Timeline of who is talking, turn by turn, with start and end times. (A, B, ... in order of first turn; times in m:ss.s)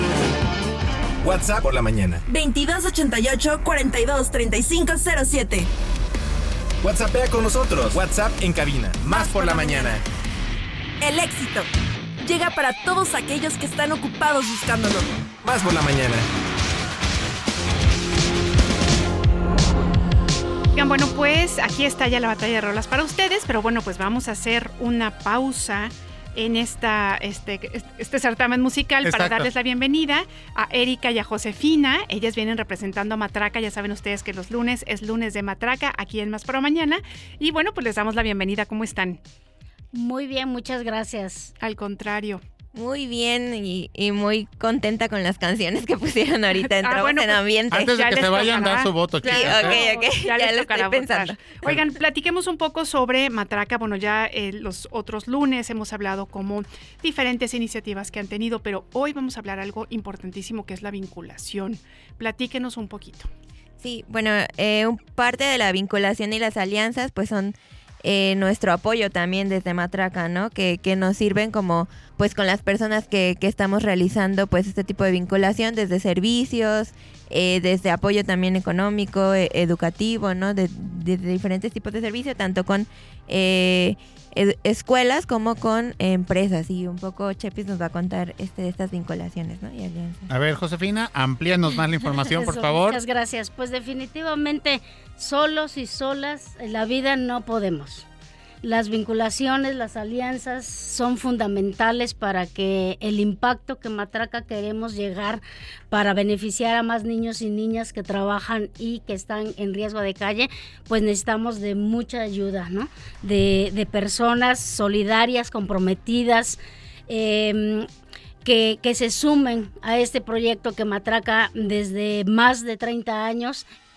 0:01.2-0:02.2 A
0:02.3-0:05.7 B
0:06.8-0:10.0 A
0:09.0-0:10.0 B
0:11.0-0:11.7 B
0:12.2-0:15.1 B
0:15.4-0:16.3 A
0:20.8-0:39.2 C
0:29.0-0:29.5 D
0:39.9-0:41.5 E
0:41.6-0:42.4 C
0:42.7-0:48.0 F
0:46.7-1:03.3 C
0:47.7-0:49.8 D
0:49.2-0:51.5 F
1:03.8-1:30.3 F
1:30.3-1:33.0 D
1:32.3-1:38.1 E
1:38.6-1:57.9 E
1:58.4-2:03.7 E